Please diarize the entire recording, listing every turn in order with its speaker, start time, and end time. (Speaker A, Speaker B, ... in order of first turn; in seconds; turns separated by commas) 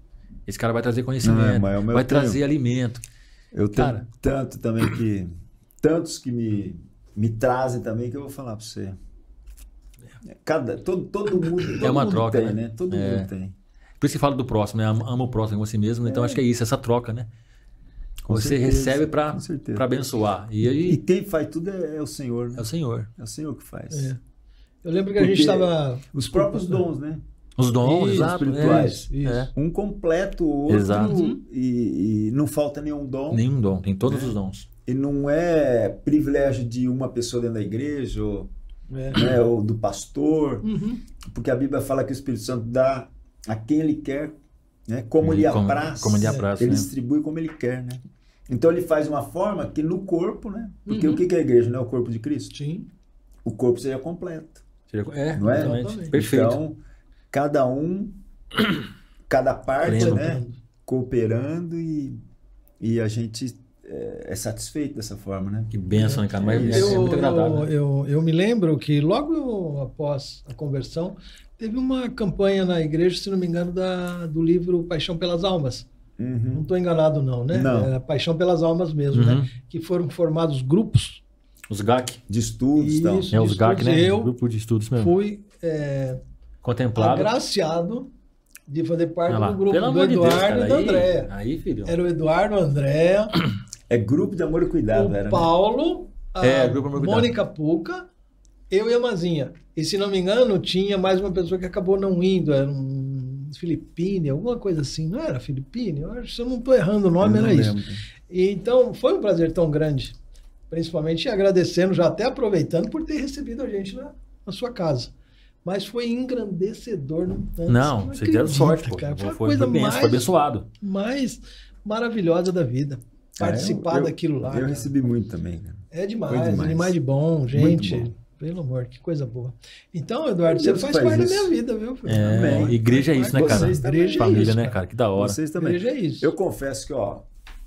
Speaker A: 0.5-3.0, Speaker B: 1.2-2.4, Speaker B: 3.5-5.3, Speaker A: 3.8-4.0, Speaker B: 5.8-9.0, Speaker B: 10.3-13.6, Speaker A: 11.7-13.3, Speaker A: 14.0-17.3, Speaker B: 16.1-16.4, Speaker B: 18.2-19.9, Speaker A: 18.3-21.0, Speaker B: 20.6-24.1, Speaker A: 22.6-23.1, Speaker C: 23.9-24.2, Speaker C: 24.8-26.9, Speaker B: 25.2-27.2, Speaker A: 27.6-29.5, Speaker C: 27.8-29.5, Speaker B: 28.0-33.5, Speaker A: 30.7-31.2, Speaker C: 30.9-31.4, Speaker A: 33.3-34.7, Speaker B: 34.0-38.5, Speaker C: 38.9-39.2, Speaker B: 39.1-40.7, Speaker C: 40.6-41.0, Speaker B: 41.3-44.4, Speaker B: 44.9-52.5, Speaker A: 45.2-46.9, Speaker C: 46.2-46.5, Speaker C: 50.9-51.2, Speaker C: 52.5-52.9, Speaker B: 53.4-54.6, Speaker A: 54.9-56.6, Speaker B: 55.3-56.8, Speaker C: 55.5-56.1, Speaker B: 57.3-58.2, Speaker B: 59.3-62.2, Speaker C: 59.8-60.6, Speaker A: 59.9-60.4, Speaker B: 62.8-65.7, Speaker A: 65.7-67.7, Speaker C: 66.0-75.9, Speaker B: 66.3-67.1, Speaker B: 76.2-76.7, Speaker C: 76.5-81.2, Speaker B: 77.5-77.9, Speaker A: 79.1-79.5, Speaker A: 81.7-82.2, Speaker B: 82.3-83.3, Speaker C: 82.8-84.3, Speaker A: 83.3-85.2, Speaker C: 85.0-86.2, Speaker A: 86.6-87.3, Speaker C: 87.0-88.1, Speaker C: 88.7-91.3, Speaker A: 89.3-92.0, Speaker C: 91.9-93.3, Speaker B: 93.9-95.5, Speaker C: 94.9-98.1, Speaker A: 96.4-97.3, Speaker C: 98.7-110.2, Speaker B: 107.2-108.0, Speaker C: 110.7-115.1, Speaker C: 115.7-124.9, Speaker A: 117.7-120.7, Speaker B: 123.4-127.0, Speaker C: 125.9-134.8, Speaker B: 127.5-128.1, Speaker B: 130.5-131.5, Speaker A: 132.1-135.4, Speaker B: 132.3-134.6, Speaker B: 135.2-137.3, Speaker C: 135.6-136.3